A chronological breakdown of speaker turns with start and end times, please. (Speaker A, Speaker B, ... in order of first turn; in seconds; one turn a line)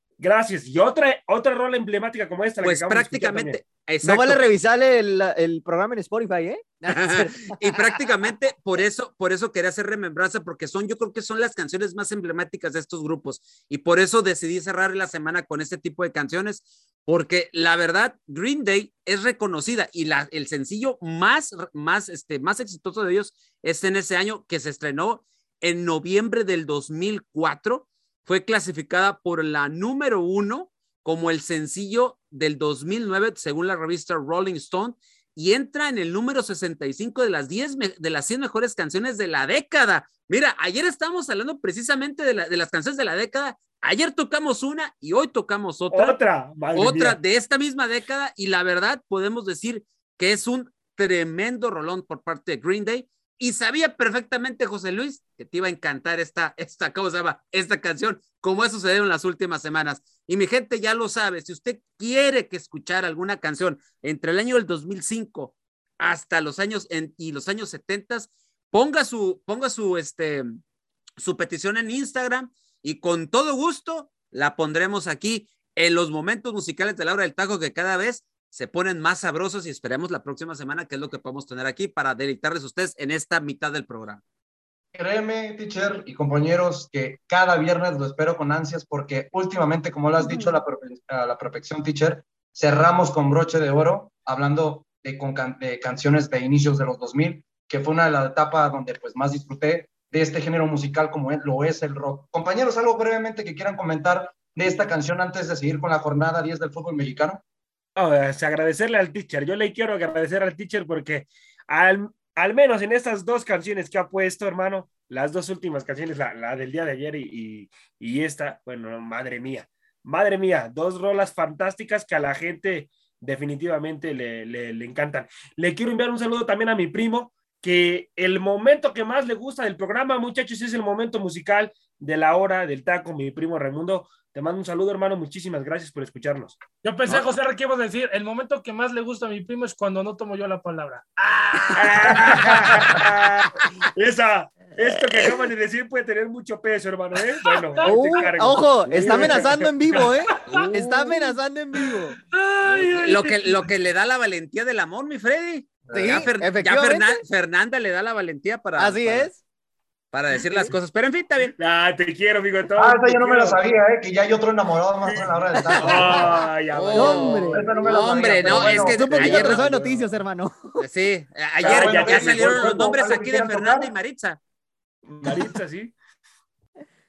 Speaker A: 0.2-3.6
Speaker B: 2.6-4.5
Speaker C: 4.0-7.8
Speaker B: 6.9-46.2
Speaker A: 45.9-47.2
Speaker B: 46.7-70.5
Speaker B: 71.2-84.2
Speaker D: 85.0-107.4
Speaker A: 108.0-137.2
Speaker E: 136.8-142.7
Speaker A: 141.8-143.3
Speaker C: 142.5-143.5
Speaker A: 143.9-150.7
Speaker E: 147.4-148.4
Speaker C: 147.8-152.2
Speaker E: 149.1-153.7
Speaker B: 153.0-159.3
Speaker D: 155.9-156.2
Speaker C: 155.9-157.2
Speaker C: 158.8-159.4
Speaker B: 160.1-161.5
Speaker A: 161.6-163.6
Speaker D: 162.8-166.4
Speaker A: 165.1-167.6
Speaker C: 165.8-166.2
Speaker B: 166.7-169.9
Speaker C: 166.9-167.7
Speaker D: 167.5-169.6
Speaker C: 168.4-170.8
Speaker A: 169.5-169.8
Speaker B: 170.8-174.4
Speaker A: 171.6-173.0
Speaker D: 171.6-173.9
Speaker A: 175.1-175.9